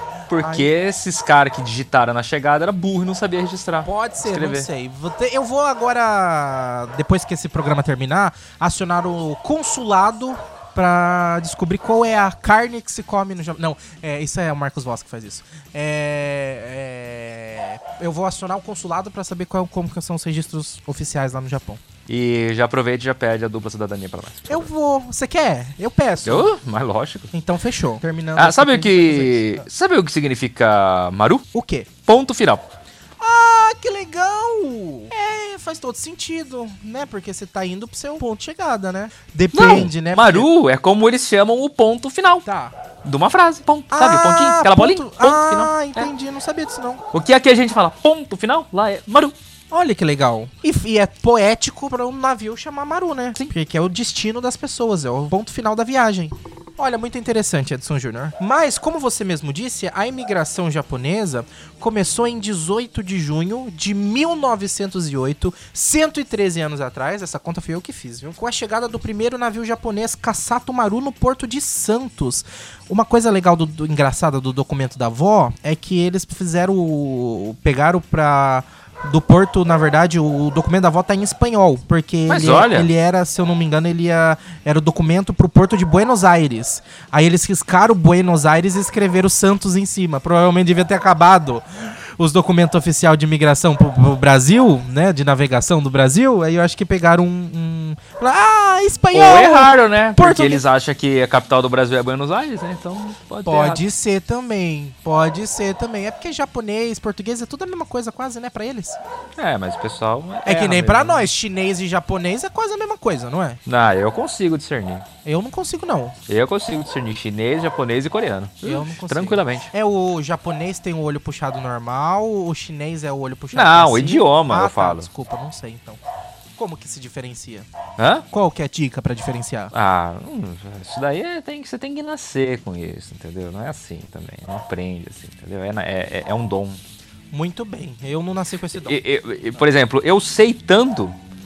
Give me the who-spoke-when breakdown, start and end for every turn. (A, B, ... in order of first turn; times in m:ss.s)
0:00.3-0:04.7 A
0:00.4-0:00.7 B
0:03.8-0:21.8 B
0:22.1-0:24.7 A
0:24.5-0:26.5 B
0:26.2-0:27.3 A
0:27.3-0:29.6 B
0:28.4-0:31.4 A
0:31.5-0:31.9 B
0:32.0-0:32.7 A
0:33.2-0:40.5 B
0:39.5-0:42.4 A
0:42.4-0:42.7 B
0:43.0-0:46.1 A
0:43.9-0:47.0 B
0:47.1-0:49.3 A
0:49.7-1:31.6 B
1:22.3-1:22.9 A
1:32.2-1:40.6 B
1:39.1-1:43.8 A
1:43.4-1:49.0 B
1:49.4-1:51.3 A
1:50.4-1:53.6 B
1:53.6-1:55.0 A
1:55.2-1:56.2 B
1:56.3-1:59.7 A
1:58.6-2:06.0 B
2:03.5-2:05.1 A
2:06.6-2:07.7 B
2:08.0-2:08.3 A
2:08.3-2:09.7 B
2:09.7-2:16.8 A
2:17.3-2:19.0 B
2:18.7-2:21.2 A